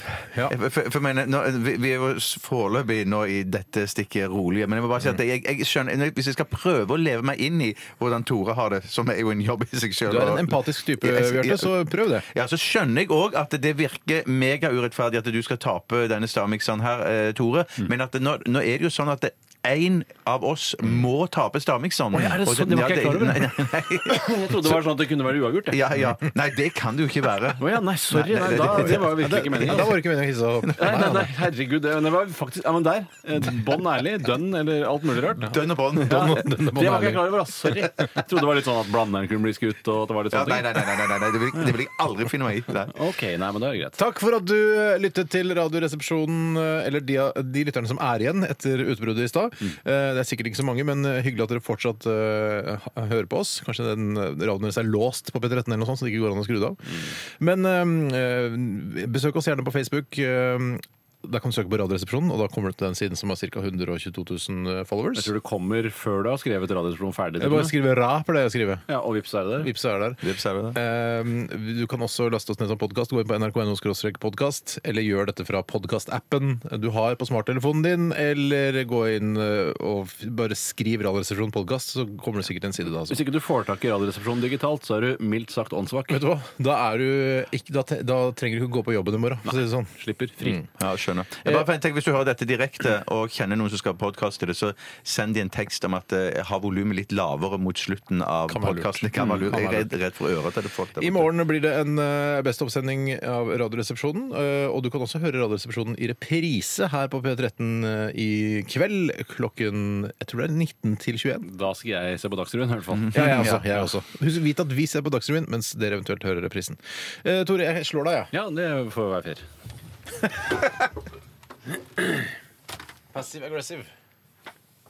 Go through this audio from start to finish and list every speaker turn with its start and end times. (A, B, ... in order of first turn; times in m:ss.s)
0:00.5-0:24.9 A
0:10.0-0:12.2 B
0:22.1-0:23.6 C
0:24.1-0:25.8 C
0:25.7-0:27.6 A
0:27.6-0:30.0 C
0:28.2-0:31.3 B
0:28.2-0:29.9 A
0:30.8-0:40.9 C
0:35.4-0:36.5 A
0:35.4-0:38.2 B
0:40.3-0:42.9 A
0:42.9-0:44.0 C
0:44.0-1:05.3 B
1:05.2-1:07.8 C
1:07.4-1:08.8 B
1:08.9-1:09.7 C
1:09.6-1:23.2 B
1:10.2-1:10.8 A
1:23.1-1:26.2 C
1:26.1-1:30.7 B
1:29.4-1:30.6 C
1:30.8-1:41.3 A
1:38.5-1:40.0 B
1:41.0-1:51.5 B
1:51.4-1:53.5 C
1:53.1-1:53.6 A
1:53.1-1:58.3 B
1:58.3-1:59.4 C
2:03.1-2:03.9 B